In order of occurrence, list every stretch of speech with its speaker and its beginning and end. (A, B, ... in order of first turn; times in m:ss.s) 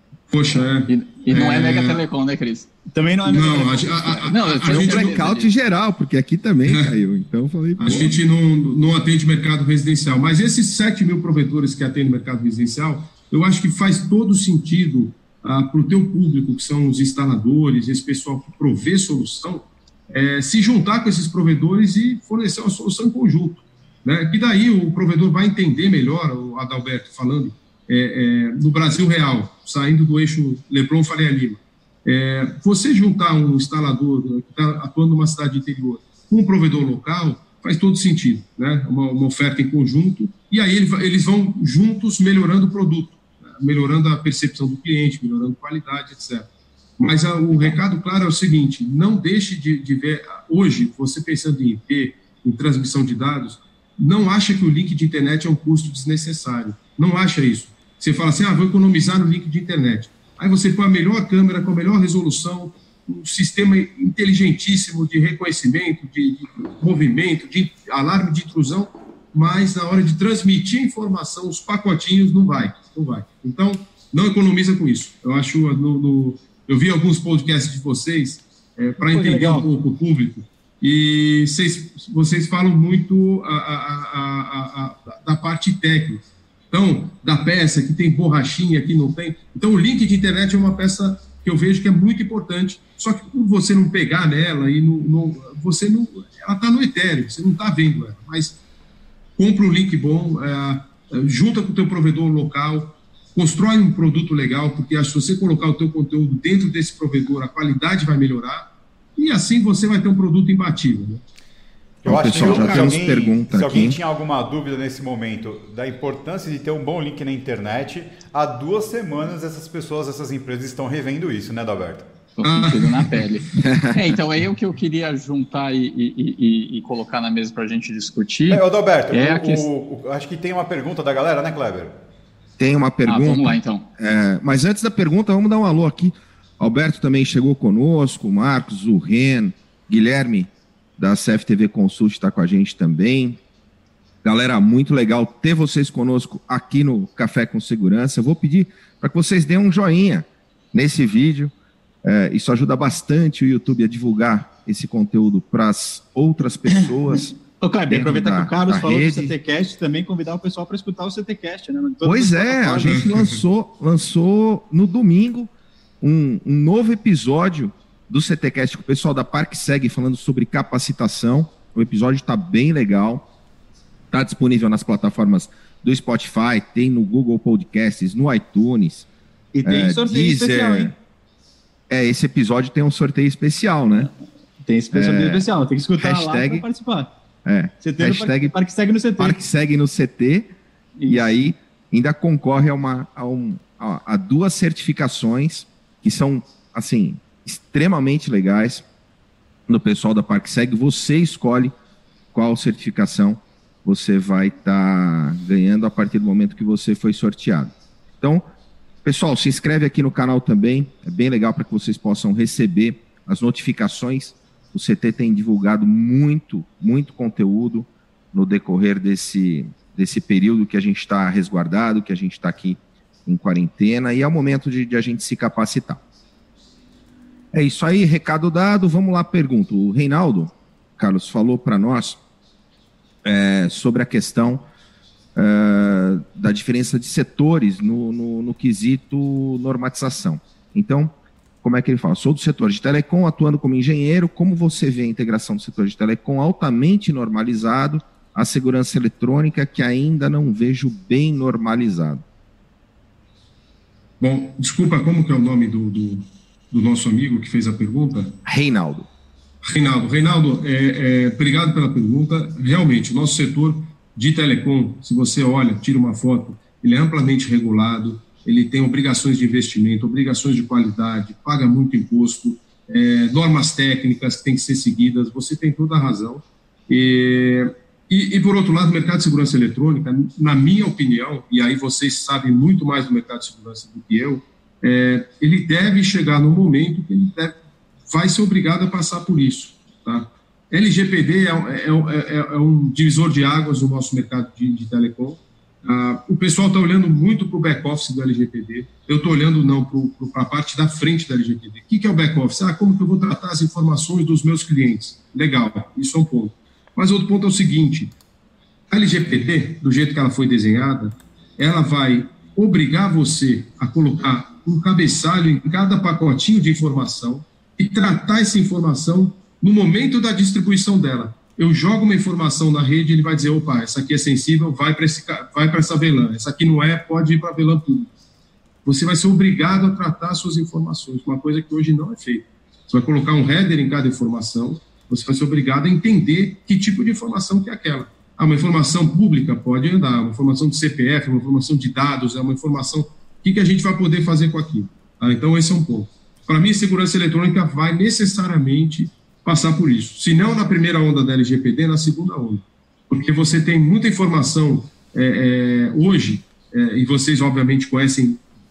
0:00.3-0:02.0 A
0:00.9-0:02.7 B
0:02.9-0:04.2 C
0:03.2-0:05.1 A
0:04.2-0:05.5 B
0:04.6-0:08.2 D
0:07.8-1:38.6 A
1:19.0-1:19.7 C
1:39.4-1:51.2 A
1:52.0-2:02.1 E
1:52.0-1:54.0 D
1:52.4-1:52.8 B
2:02.4-2:09.6 B
2:02.4-2:03.2 A
2:03.6-2:04.0 D
2:08.5-2:11.9 E
2:12.6-2:23.4 D
2:13.0-2:13.8 B
2:24.2-2:31.5 D
2:32.0-2:37.3 D
2:37.6-2:43.1 C
2:37.9-2:39.4 D
2:42.0-2:53.2 D
2:42.8-2:43.4 A
2:54.1-2:59.1 D
2:59.5-3:00.9 C
2:59.6-3:00.9 D
3:01.9-3:04.1 D
3:04.6-3:07.1 C
3:04.9-3:05.4 D
3:06.0-3:06.6 D
3:07.4-3:08.5 D
3:07.8-3:09.4 C
3:09.2-3:10.6 D
3:11.0-3:11.4 C
3:11.1-3:18.8 D
3:19.7-3:21.7 D
3:22.3-3:28.4 D
3:29.0-3:46.0 D
3:47.5-3:52.2 D
3:53.2-3:54.6 D
3:55.3-4:12.2 D
4:14.2-4:18.4 A
4:18.4-4:19.1 D
4:19.6-4:47.6 A
4:48.1-5:08.1 A
5:08.9-5:28.1 A
5:28.8-5:58.4 A